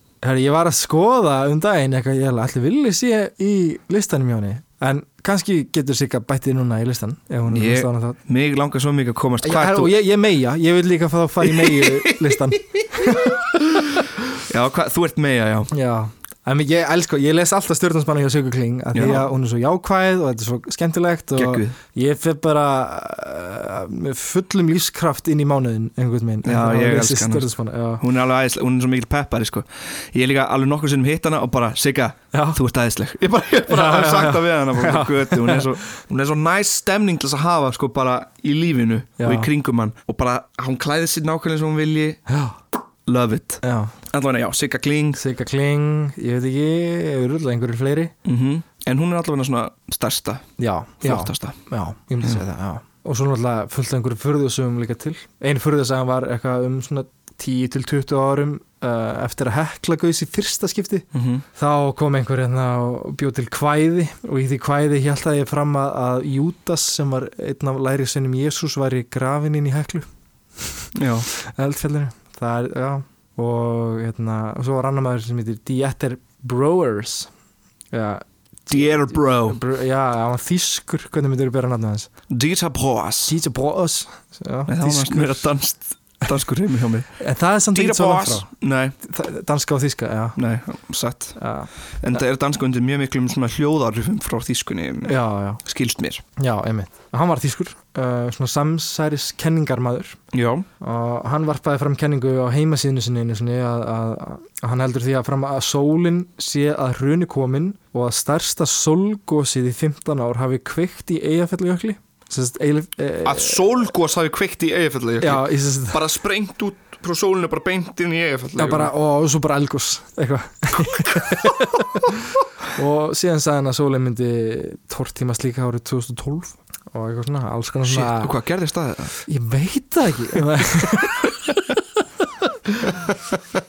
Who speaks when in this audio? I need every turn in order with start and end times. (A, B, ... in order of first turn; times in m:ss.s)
0:00.2-0:08.2 A
0:07.5-0:09.9 B
0:09.4-0:14.0 A
0:11.4-0:13.2 B
0:14.5-0:15.7 B
0:15.7-0:28.0 A
0:18.9-0:19.3 B
0:21.4-0:21.8 B
0:26.4-0:27.5 B
0:28.0-0:42.2 B
0:32.3-0:32.6 A
0:33.7-0:35.7 A
0:39.2-0:39.5 A
0:42.3-0:42.6 A
0:43.1-0:45.2 B
0:43.6-0:44.0 A
0:45.2-0:48.1 A
0:48.2-0:50.5 B
0:50.6-1:10.1 A
0:51.0-0:51.6 B
1:01.1-1:01.4 B
1:10.6-1:17.3 A
1:11.0-1:11.3 B
1:17.9-1:22.1 A
1:18.7-1:19.6 B
1:22.3-1:23.4 B
1:23.3-1:25.5 A
1:24.7-1:27.1 B
1:27.2-1:28.5 A
1:27.7-1:29.0 B
1:29.0-1:30.4 A
1:30.4-1:31.4 B
1:31.4-1:31.7 A
1:32.0-1:36.2 B
1:35.1-1:35.6 A
1:36.4-1:40.2 A
1:40.3-1:40.7 B
1:40.8-1:53.6 A
1:53.2-1:58.9 B
1:55.2-1:56.0 A
1:58.6-2:08.4 A
2:00.8-2:01.5 B
2:07.8-2:09.1 B
2:09.2-2:11.4 A
2:12.5-2:13.4 A